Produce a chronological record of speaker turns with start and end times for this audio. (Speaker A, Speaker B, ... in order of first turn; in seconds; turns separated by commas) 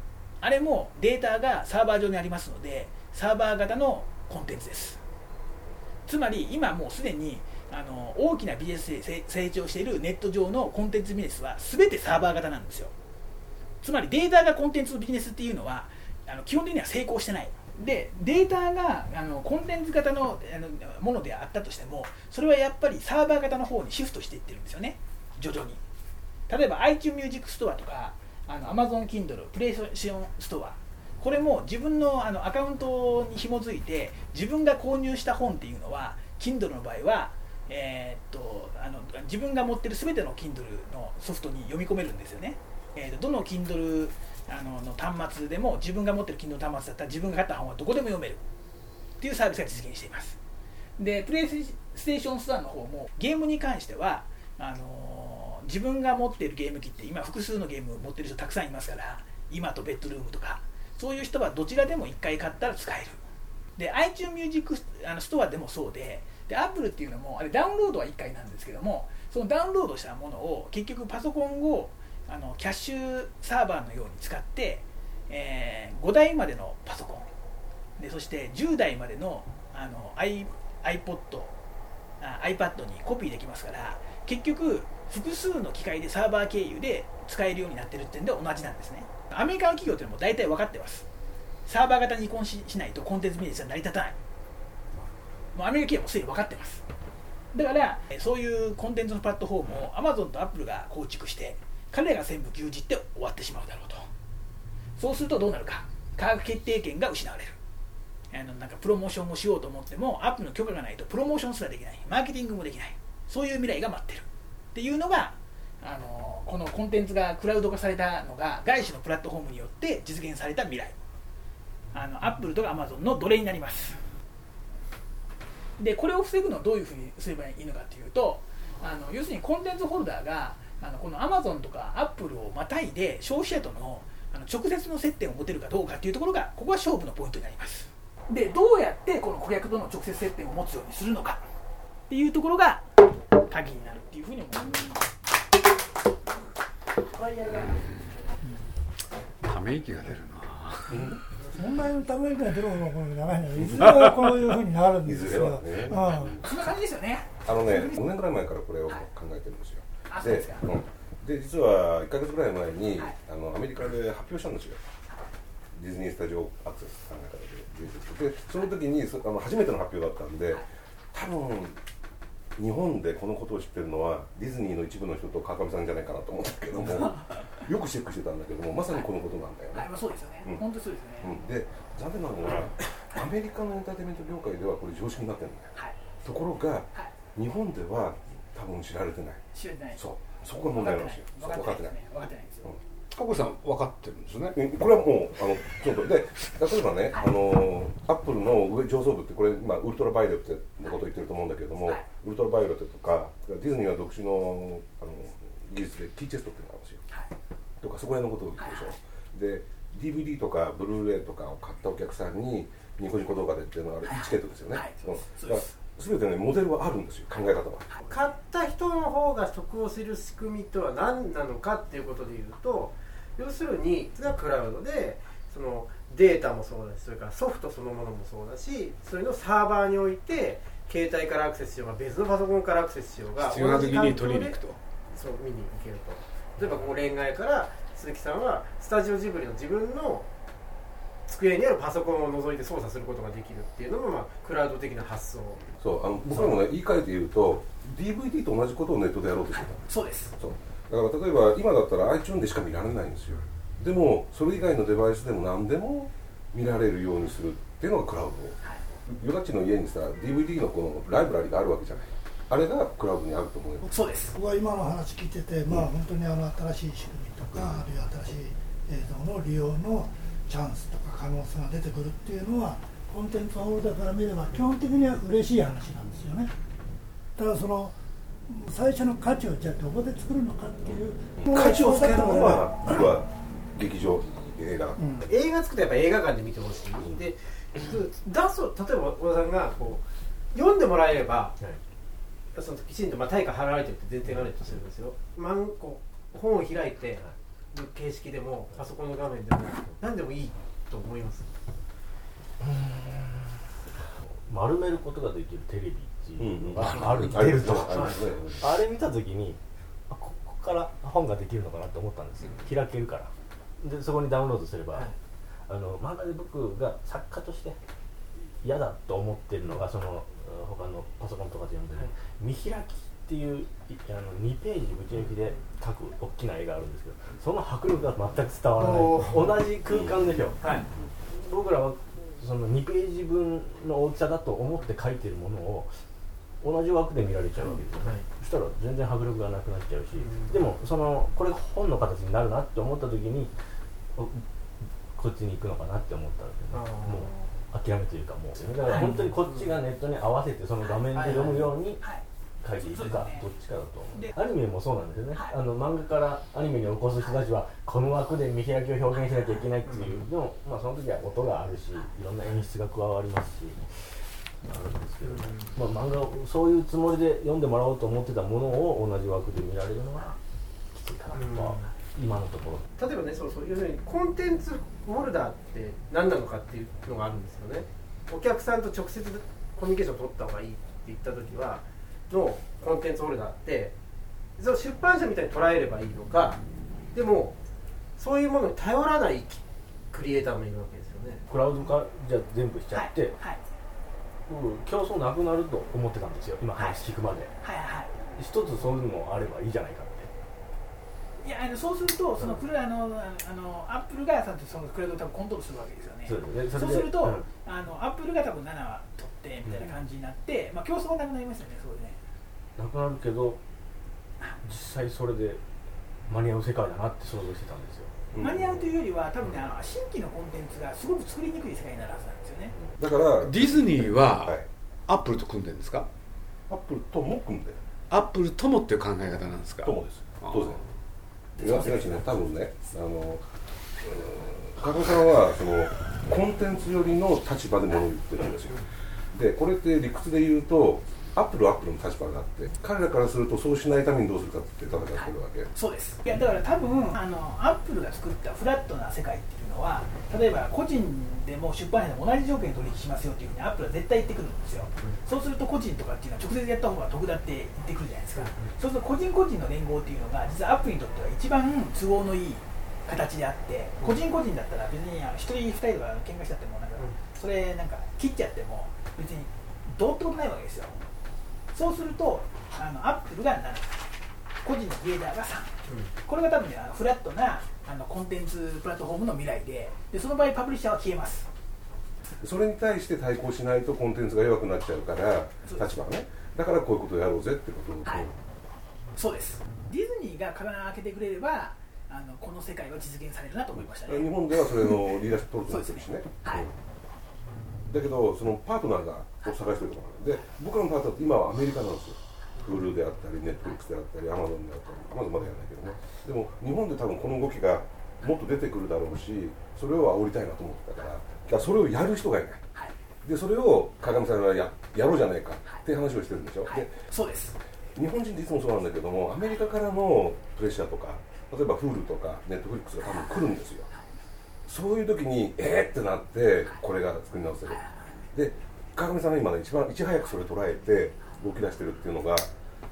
Speaker A: 0.4-5.0, Speaker A: 6.0-12.9, Speaker A: 13.8-25.8, Speaker A: 26.5-48.4, Speaker A: 49.2-50.4, Speaker A: 51.0-63.2, Speaker A: 63.8-77.3, Speaker A: 78.0-81.5, Speaker A: 82.2-91.1, Speaker A: 91.7-94.2, Speaker A: 95.5-96.8, Speaker A: 97.5-104.1, Speaker A: 105.0-107.6, Speaker A: 108.3-121.0, Speaker A: 121.9-124.0, Speaker A: 125.8-141.4, Speaker A: 142.1-142.8, Speaker A: 143.5-145.0, Speaker B: 147.2-147.5, Speaker C: 149.4-151.1, Speaker D: 150.9-151.2, Speaker B: 151.5-156.4, Speaker C: 153.9-154.2, Speaker D: 155.0-156.4, Speaker A: 156.1-157.9, Speaker D: 157.4-164.8, Speaker A: 160.1-160.7, Speaker D: 165.8-171.8, Speaker D: 172.6-179.9, Speaker A: 179.7-181.4, Speaker D: 181.2-189.4, Speaker A: 189.5-190.0, Speaker D: 190.0-191.9, Speaker A: 190.7-192.7, Speaker C: 193.1-194.6, Speaker D: 194.4-207.0, Speaker D: 207.8-217.9, Speaker A: 208.6-208.8, Speaker A: 214.0-215.8, Speaker E: 218.1-234.6, Speaker C: 233.4-234.8, Speaker E: 235.1-240.3, Speaker E: 241.3-245.7, Speaker D: 245.8-249.8, Speaker A: 249.5-250.3, Speaker D: 250.4-263.9, Speaker A: 263.8-264.3, Speaker B: 264.3-276.5, Speaker D: 267.6-267.8, Speaker B: 277.4-283.1, Speaker D: 281.4-285.0, Speaker B: 285.0-285.3, Speaker E: 285.2-291.5, Speaker E: 292.5-301.5, Speaker F: 302.7-303.4, Speaker F: 304.5-315.1, Speaker D: 306.4-308.7, Speaker F: 315.7-317.8, Speaker F: 318.6-335.9, Speaker E: 328.8-329.5, Speaker E: 330.6-330.9, Speaker F: 336.6-343.5, Speaker E: 337.6-338.2, Speaker E: 340.2-340.5, Speaker F: 344.1-344.4, Speaker F: 345.1-352.0, Speaker E: 346.7-347.5, Speaker E: 348.9-349.7, Speaker A: 350.9-352.2, Speaker F: 352.6-363.8, Speaker A: 352.8-353.4, Speaker E: 359.9-360.2, Speaker F: 364.6-370.4, Speaker E: 365.2-365.7, Speaker F: 370.9-372.9, Speaker E: 371.3-371.9, Speaker E: 373.0-383.9, Speaker E: 384.6-386.6, Speaker E: 387.1-387.6, Speaker E: 388.2-391.5, Speaker F: 391.5-393.4, Speaker A: 392.9-393.6, Speaker F: 394.5-397.5, Speaker A: 397.6-398.1, Speaker F: 398.3-400.3, Speaker A: 401.4-412.2, Speaker F: 406.2-407.5, Speaker F: 412.8-413.6, Speaker F: 414.6-415.6, Speaker F: 416.3-418.1, Speaker D: 418.3-418.8, Speaker A: 418.4-422.7, Speaker D: 423.0-424.6, Speaker C: 423.4-426.1, Speaker D: 426.7-427.8, Speaker C: 428.1-430.8, Speaker D: 429.8-430.8, Speaker D: 431.6-433.4, Speaker A: 431.6-432.2, Speaker D: 434.0-445.7, Speaker A: 445.7-471.0, Speaker E: 458.4-458.7, Speaker A: 471.7-474.1, Speaker A: 474.6-481.5, Speaker D: 482.4-488.4, Speaker A: 489.1-495.0, Speaker D: 494.0-496.8, Speaker A: 495.7-496.6, Speaker D: 497.9-512.6, Speaker D: 513.2-516.9, Speaker A: 516.7-517.6, Speaker D: 518.0-523.9, Speaker D: 524.6-532.5